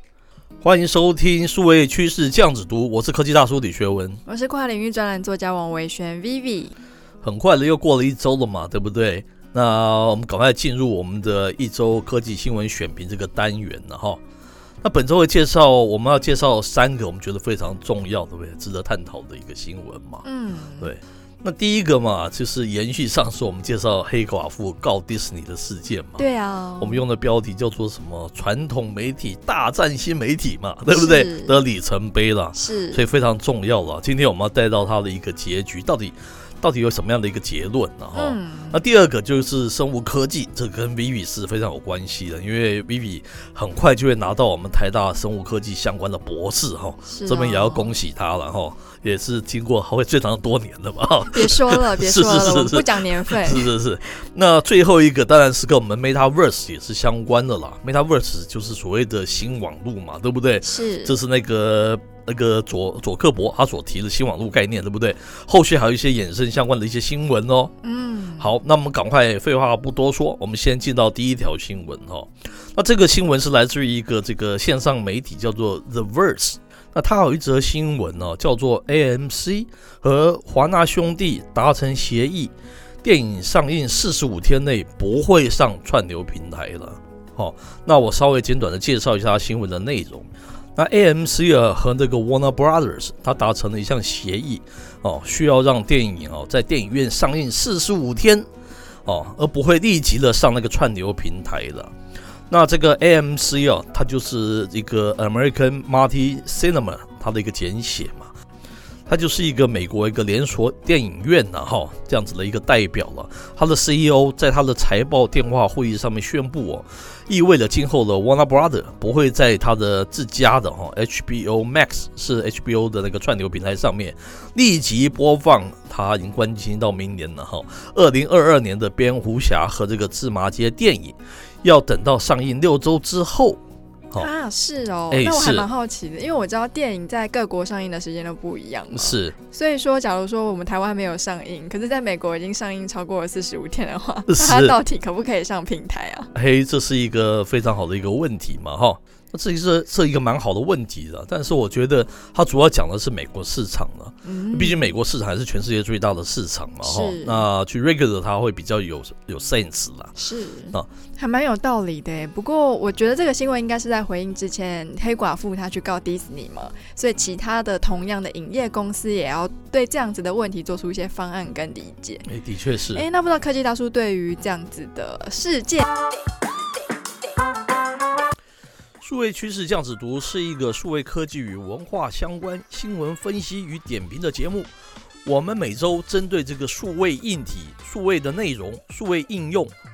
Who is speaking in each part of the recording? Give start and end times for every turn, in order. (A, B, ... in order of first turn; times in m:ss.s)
0:00.6-0:04.2 A
0:04.3-0:06.7 B
0:07.2-0:14.2 A
0:14.8-0:20.2 A
0:20.2-0:20.9 B
0:20.8-0:26.2 A
0:26.2-0:27.0 B
0:26.8-1:07.7 A
0:30.9-0:31.6 B
0:32.6-0:33.0 B
0:38.2-0:38.8 B
0:47.1-0:47.9 B
0:51.3-0:53.7 B
1:00.6-1:01.2 B
1:07.8-1:08.5 B
1:08.4-1:38.5 A
1:39.1-1:41.9 A
1:42.5-1:48.3 A
1:49.1-2:13.6 A
2:14.2-2:26.3 B
2:15.1-2:15.7 A
2:18.9-2:19.4 A
2:24.3-2:24.8 A
2:26.3-2:40.1 A
2:34.2-2:34.9 B
2:36.8-2:37.5 B
2:40.2-2:52.3 B
2:52.3-2:53.0 A
2:52.9-2:55.9 B
2:59.0-3:04.7 A
3:05.2-3:09.7 A